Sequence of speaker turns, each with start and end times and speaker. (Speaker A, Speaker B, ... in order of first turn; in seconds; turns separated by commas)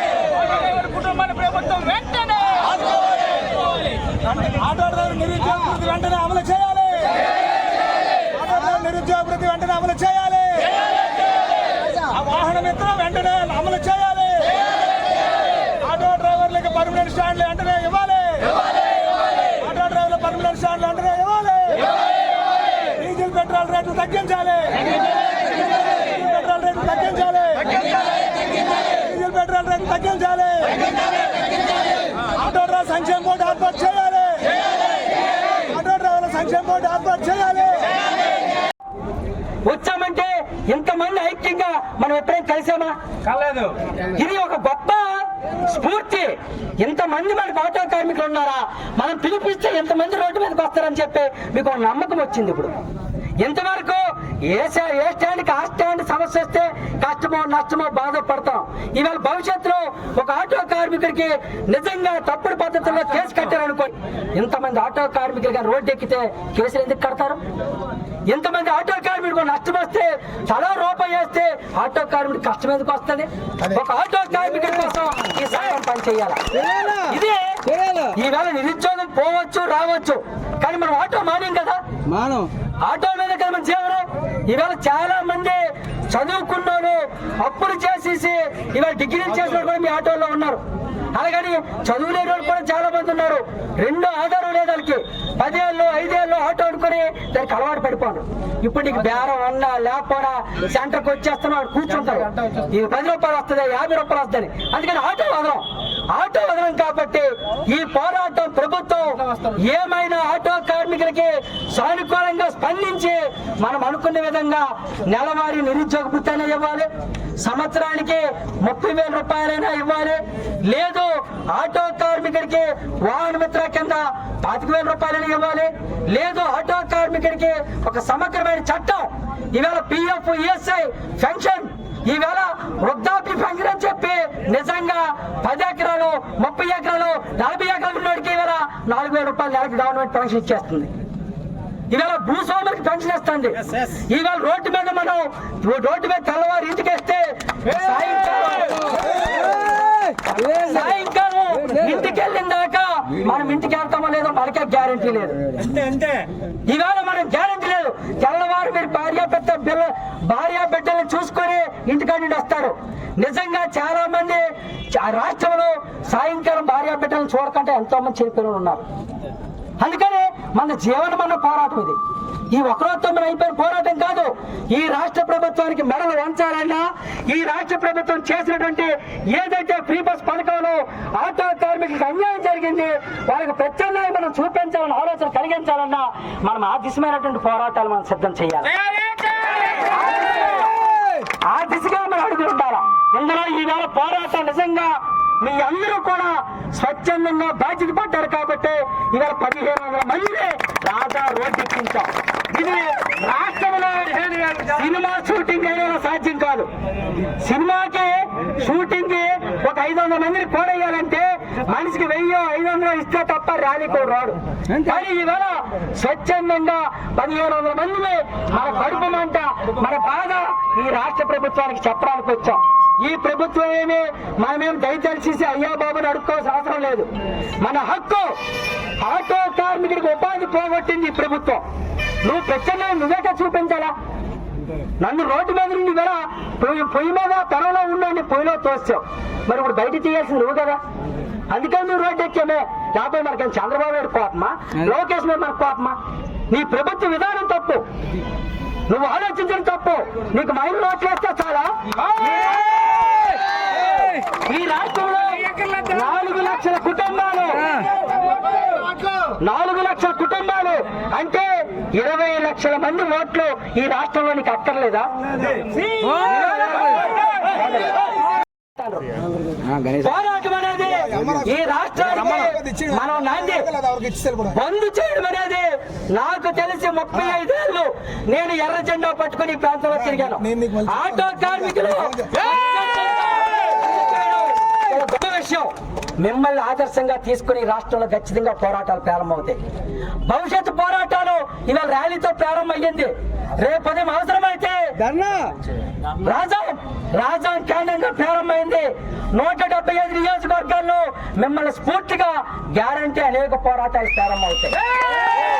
Speaker A: 0.4-2.7, Speaker B: 4.4-7.2, Speaker B: 8.3-10.8, Speaker B: 11.9-14.6, Speaker B: 15.8-18.6, Speaker B: 19.5-21.9, Speaker B: 22.9-24.9, Speaker B: 26.0-27.8, Speaker B: 28.9-30.9, Speaker B: 32.3-34.6, Speaker B: 35.6-38.0, Speaker C: 39.6-43.0, Speaker C: 44.0-52.7, Speaker C: 53.4-67.4, Speaker C: 68.3-81.8, Speaker A: 76.6-77.1, Speaker A: 77.7-78.1, Speaker A: 82.1-82.5, Speaker C: 82.8-90.6, Speaker C: 91.1-116.9, Speaker C: 117.4-140.9, Speaker C: 141.9-149.7, Speaker C: 150.3-155.4, Speaker C: 156.7-168.8, Speaker C: 169.8-172.0, Speaker C: 172.5-188.8, Speaker A: 189.0-189.4, Speaker C: 189.6-190.7, Speaker C: 191.5-227.1, Speaker C: 227.6-228.3, Speaker C: 229.0-231.6, Speaker C: 232.2-233.9, Speaker C: 235.0-240.8, Speaker C: 241.5-247.8, Speaker C: 248.9-253.4, Speaker C: 254.4-257.9, Speaker C: 259.4-265.2, Speaker C: 266.0-269.2, Speaker C: 269.9-273.7, Speaker B: 272.2-272.9, Speaker B: 273.8-274.4, Speaker C: 274.4-289.6, Speaker B: 280.6-281.0, Speaker C: 290.2-295.0, Speaker A: 295.0-295.6, Speaker C: 296.1-305.2